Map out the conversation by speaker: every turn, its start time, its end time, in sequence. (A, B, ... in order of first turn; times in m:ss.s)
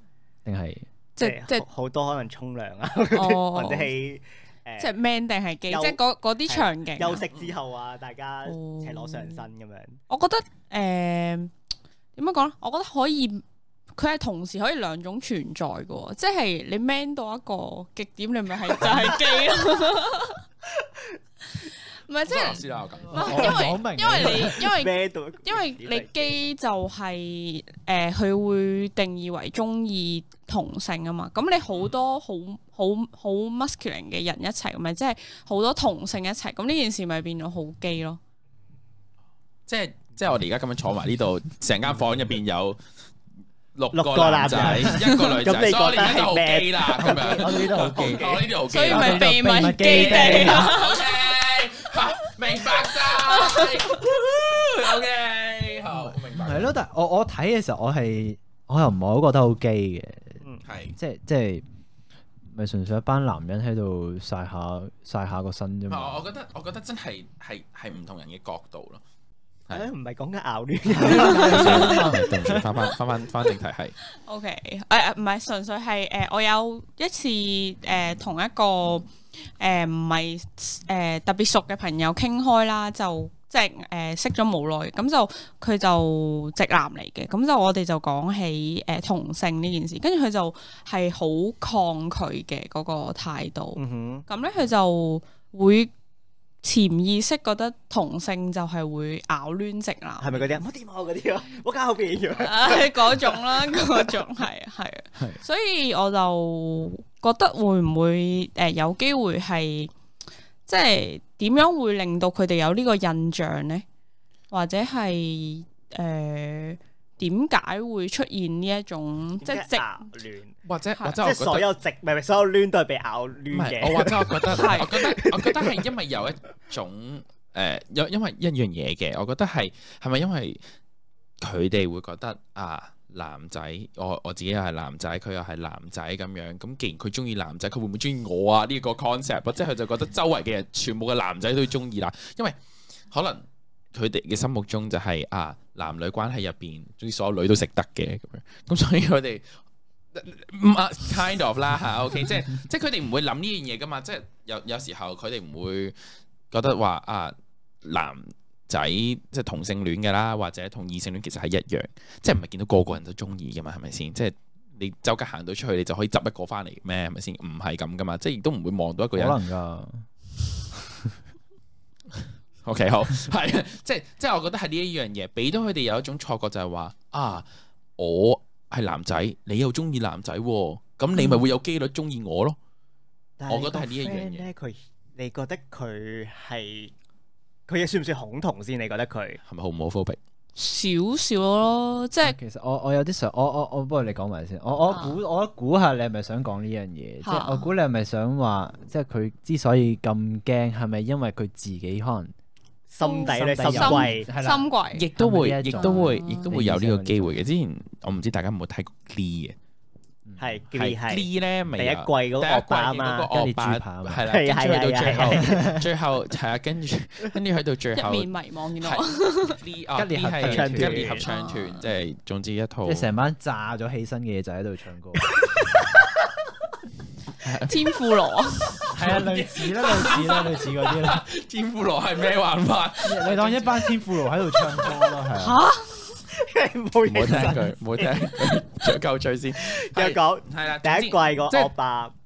0:00.4-0:00.9 A
0:01.2-0:01.6 B
0:01.2-0:04.9 C
0:03.1-0:03.9 B
0:04.8-0:07.3 B
0:05.7-0:10.0 C
0:08.4-0:09.4 B
0:10.1-0:11.5 B
0:12.2-0:13.4 B
0:14.0-0:20.4 B
0:20.6-0:21.2 C
0:21.6-0:38.2 B
0:22.2-0:23.5 D
0:23.1-0:24.7 A
0:23.3-0:23.6 C
0:24.2-0:26.3 C
0:39.7-0:42.8 D
0:43.8-0:49.3 D
0:43.9-0:48.4 C
0:44.5-0:44.9 A
0:47.0-0:48.3 A
0:48.7-0:51.0 B
0:48.8-0:50.8 A
0:49.9-0:56.7 D
0:53.2-0:53.8 B
0:55.9-1:00.4 A
1:00.6-1:01.0 D
1:01.0-1:01.6 A
1:02.5-1:06.2 A
1:05.9-1:09.0 D
1:09.7-1:11.6 C
1:10.9-1:12.7 A
1:11.3-1:14.0 D
1:11.3-1:11.9 B
1:14.2-1:35.9 B
1:33.8-1:34.2 C
1:36.6-1:40.5 B
1:40.2-1:44.1 C
1:42.4-1:49.9 B
1:50.7-1:53.8 B
1:54.5-2:00.0 B
1:59.4-2:00.5 C
2:00.6-2:01.7 D
2:01.2-2:04.4 C
2:03.5-2:10.6 D
2:04.5-2:05.0 B
2:05.0-2:05.7 C
2:11.4-2:22.6 D
2:23.1-2:29.6 D
2:30.1-2:36.0 D
2:36.5-2:49.4 D
2:49.1-2:50.0 A
2:50.7-2:51.1 A
2:52.6-2:57.4 D
2:58.0-3:02.6 D
3:03.4-3:06.9 C
3:03.5-3:04.5 D
3:07.7-3:09.4 C
3:09.4-3:10.2 D
3:10.6-3:12.4 B
3:12.2-3:22.3 A
3:14.9-3:15.2 B
3:17.2-3:17.7 B
3:22.9-3:24.3 C
3:23.0-3:25.1 B
3:23.3-3:27.4 A
3:24.9-3:29.6 D
3:25.8-3:26.5 B
3:30.4-3:33.3 C
3:30.7-3:43.1 D
3:33.3-3:34.2 A
3:34.2-3:35.8 C
3:35.4-3:35.8 A
3:37.9-3:39.6 B
3:40.0-3:41.1 A
3:40.4-3:41.3 C
3:41.2-3:41.8 B
3:42.8-3:45.3 A
3:47.4-3:47.7 D
3:47.6-3:48.8 B
3:48.9-3:51.2 A
3:49.0-3:53.9 D
3:53.0-3:55.6 A
3:55.3-3:56.2 B
3:56.3-3:58.9 C
3:57.0-4:01.7 D
3:59.6-4:02.1 C